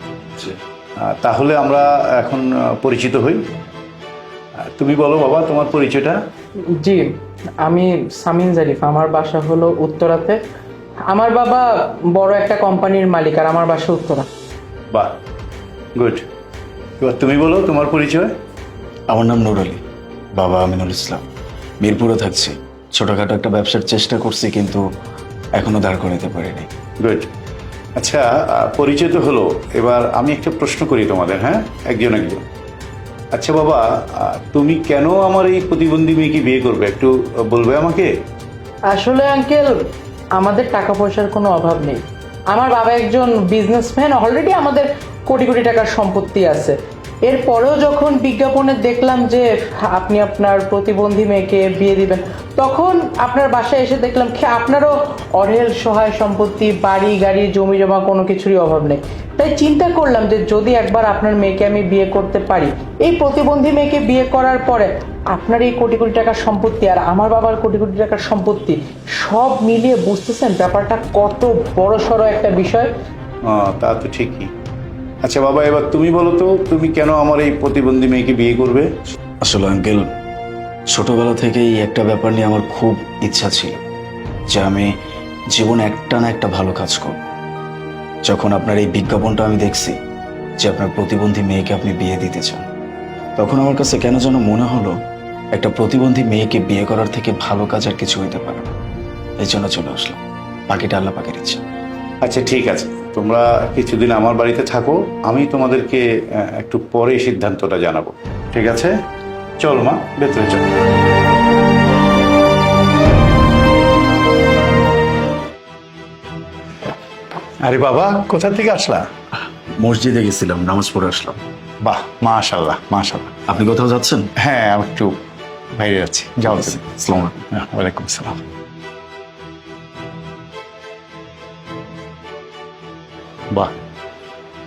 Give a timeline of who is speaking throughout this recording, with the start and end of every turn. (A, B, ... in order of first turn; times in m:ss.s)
0:00.4-0:03.4 A
0:04.8-0:06.2 A
0:06.8-0:10.4 B
0:11.1-0:14.2 B
0:16.0-0:16.2 A
0:17.0-0:18.3 A
0:19.1-0:19.8 C
0:20.3-0:21.2 C
0:21.8-0:24.8 C
0:25.5-0:26.7 C
0:27.0-0:27.3 A
0:28.0-0:32.4 A
0:33.3-0:38.1 A
0:38.9-0:39.8 B
0:40.4-1:12.9 B
1:13.5-1:14.5 A
1:15.2-1:18.9 A
1:19.4-1:20.1 C
1:20.9-1:23.8 C
1:24.5-1:24.9 C
1:25.5-1:27.2 C
1:28.2-1:30.0 C
1:30.6-1:32.6 C
1:33.4-1:35.0 C
1:35.5-1:38.7 C
1:39.4-1:41.6 C
1:42.2-1:48.9 A
1:49.6-1:50.6 A
1:57.6-1:59.0 A
1:59.8-2:01.4 C
2:01.8-2:03.3 A
2:03.5-2:04.3 C
2:04.4-2:05.2 A
2:05.7-2:08.4 A
2:06.8-2:07.3 C